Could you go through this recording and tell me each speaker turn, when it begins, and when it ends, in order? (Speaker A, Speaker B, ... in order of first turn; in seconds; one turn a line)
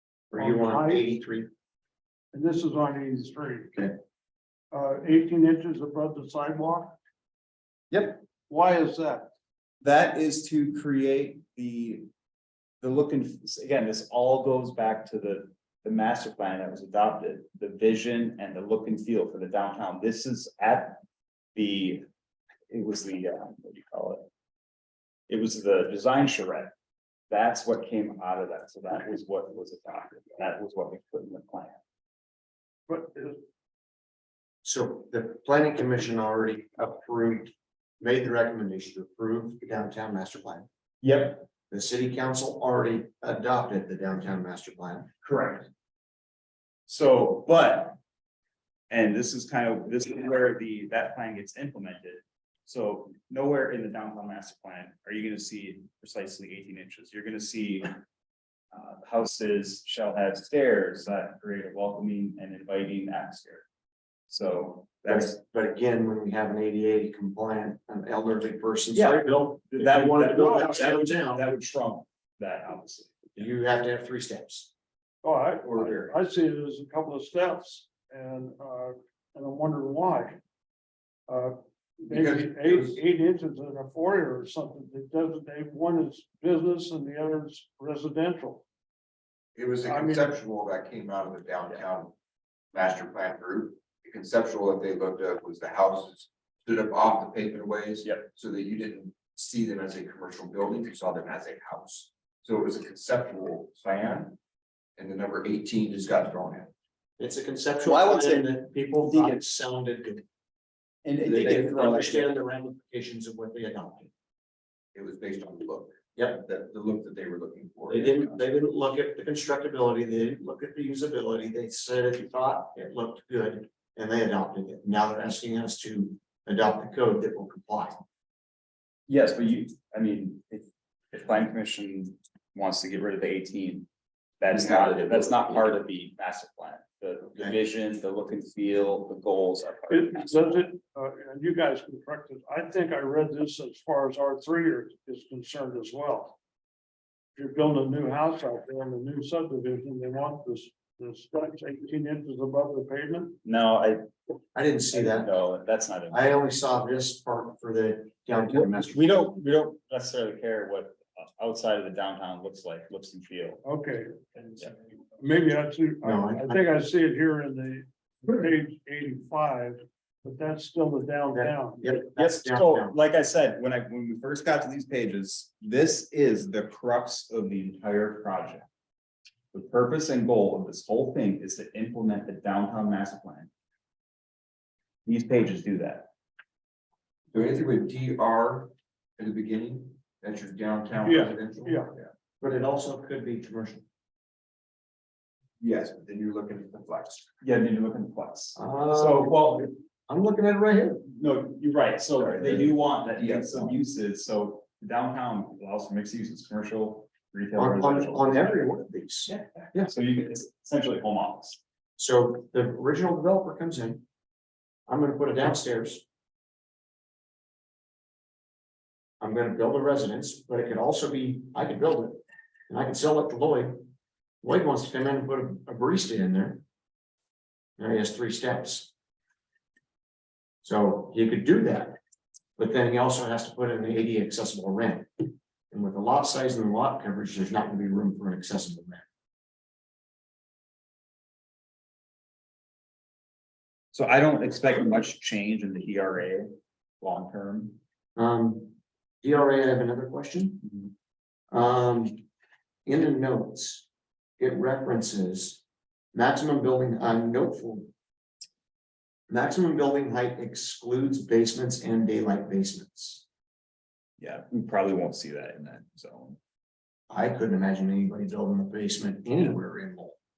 Speaker A: 0.3-1.5
Speaker B: 0.3-1.1
Speaker B: 2.3-3.9
Speaker B: 4.7-7.0
Speaker C: 7.9-8.2
Speaker B: 8.2-9.3
Speaker C: 9.8-12.1
Speaker C: 12.8-21.0
Speaker C: 21.5-22.1
Speaker C: 22.7-24.2
Speaker C: 25.3-26.7
Speaker C: 27.3-31.8
Speaker B: 32.9-33.4
Speaker A: 34.6-40.7
Speaker C: 41.0-41.4
Speaker A: 41.7-45.1
Speaker C: 45.2-45.7
Speaker C: 46.9-48.0
Speaker C: 48.9-58.0
Speaker C: 58.7-63.6
Speaker C: 64.3-65.3
Speaker A: 65.0-71.4
Speaker C: 68.9-73.5
Speaker A: 73.3-74.7
Speaker B: 75.2-80.4
Speaker C: 75.6-76.1
Speaker B: 81.3-88.6
Speaker D: 82.1-83.0
Speaker D: 89.5-92.1
Speaker B: 89.8-90.3
Speaker D: 92.7-104.4
Speaker D: 105.0-106.7
Speaker A: 107.2-110.2
Speaker C: 107.8-108.5
Speaker C: 109.0-109.4
Speaker C: 111.0-112.3
Speaker D: 111.2-112.1
Speaker A: 111.2-114.1
Speaker D: 114.9-118.3
Speaker A: 116.2-116.4
Speaker A: 117.9-128.0
Speaker C: 129.1-133.9
Speaker C: 134.4-140.7
Speaker D: 134.5-135.6
Speaker B: 139.9-146.3
Speaker B: 147.3-153.4
Speaker C: 153.4-154.0
Speaker A: 154.5-155.3
Speaker C: 154.9-156.3
Speaker A: 156.1-159.3
Speaker C: 158.4-163.6
Speaker B: 163.6-164.2
Speaker B: 165.2-172.0
Speaker A: 166.0-166.6
Speaker A: 171.3-172.9
Speaker C: 172.2-178.7
Speaker C: 179.5-183.5
Speaker C: 185.1-186.1
Speaker D: 187.3-192.1
Speaker B: 191.0-191.9
Speaker A: 192.4-193.8
Speaker D: 195.6-197.3
Speaker C: 197.4-199.7
Speaker A: 198.6-201.0
Speaker C: 201.0-208.7
Speaker D: 202.2-203.8
Speaker A: 207.6-209.9
Speaker C: 209.8-211.6
Speaker A: 212.0-214.0
Speaker A: 214.9-216.0
Speaker A: 219.2-223.8
Speaker A: 224.4-226.6
Speaker A: 227.8-228.9
Speaker A: 230.6-232.0
Speaker A: 232.6-239.0
Speaker C: 243.9-247.8
Speaker A: 248.2-250.7
Speaker A: 251.5-252.2
Speaker A: 252.8-253.8
Speaker A: 254.4-255.6
Speaker A: 256.1-257.9
Speaker A: 259.3-263.2
Speaker C: 264.2-266.4
Speaker A: 267.1-270.1